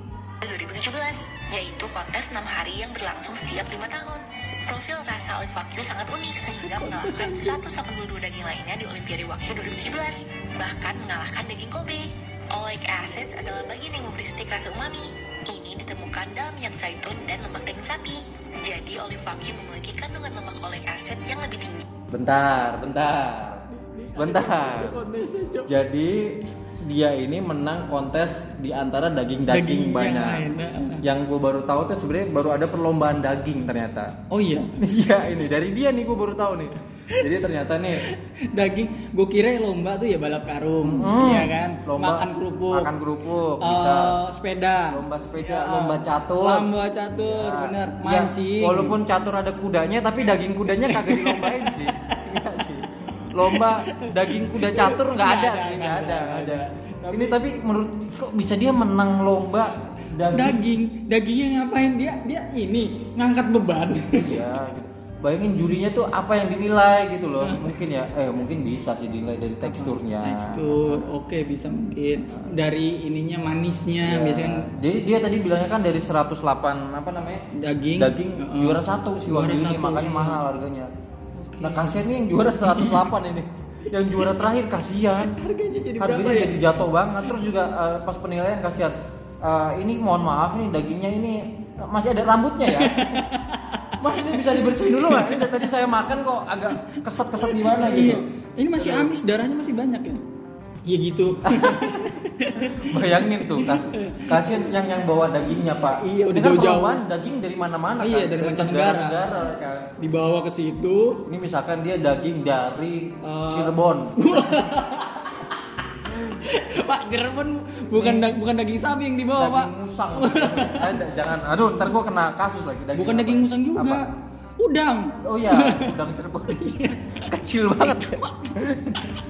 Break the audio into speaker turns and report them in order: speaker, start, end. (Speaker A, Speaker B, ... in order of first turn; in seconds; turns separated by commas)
Speaker A: 0.4-21.9, Speaker B: 6.6-7.6, Speaker C: 22.1-23.6, Speaker B: 23.7-25.7, Speaker C: 24.2-25.0, Speaker C: 25.7-30.4, Speaker B: 29.5-31.0, Speaker C: 31.0-34.1, Speaker B: 34.3-34.7, Speaker C: 34.8-38.1, Speaker B: 38.0-42.9, Speaker C: 40.8-44.2, Speaker B: 43.6-49.0, Speaker C: 44.9-60.6, Speaker B: 50.7-52.1, Speaker B: 53.5-57.4, Speaker B: 60.3-64.5, Speaker C: 64.1-71.0, Speaker B: 67.4-67.8, Speaker B: 69.6-74.7, Speaker C: 74.0-77.4, Speaker B: 77.5-80.4, Speaker C: 78.0-80.9, Speaker B: 81.3-82.0, Speaker C: 81.6-85.4, Speaker B: 82.6-83.1, Speaker B: 85.2-86.6, Speaker C: 86.0-93.2, Speaker B: 92.7-95.7, Speaker C: 94.0-98.2, Speaker B: 97.4-100.2, Speaker C: 98.8-99.1, Speaker B: 100.8-104.8, Speaker C: 101.4-109.9, Speaker B: 105.8-107.0, Speaker B: 108.0-109.2, Speaker B: 110.0-111.2, Speaker C: 111.2-114.6, Speaker B: 113.2-121.0, Speaker C: 117.9-118.3, Speaker C: 119.3-124.0, Speaker B: 122.9-128.6, Speaker C: 125.2-129.1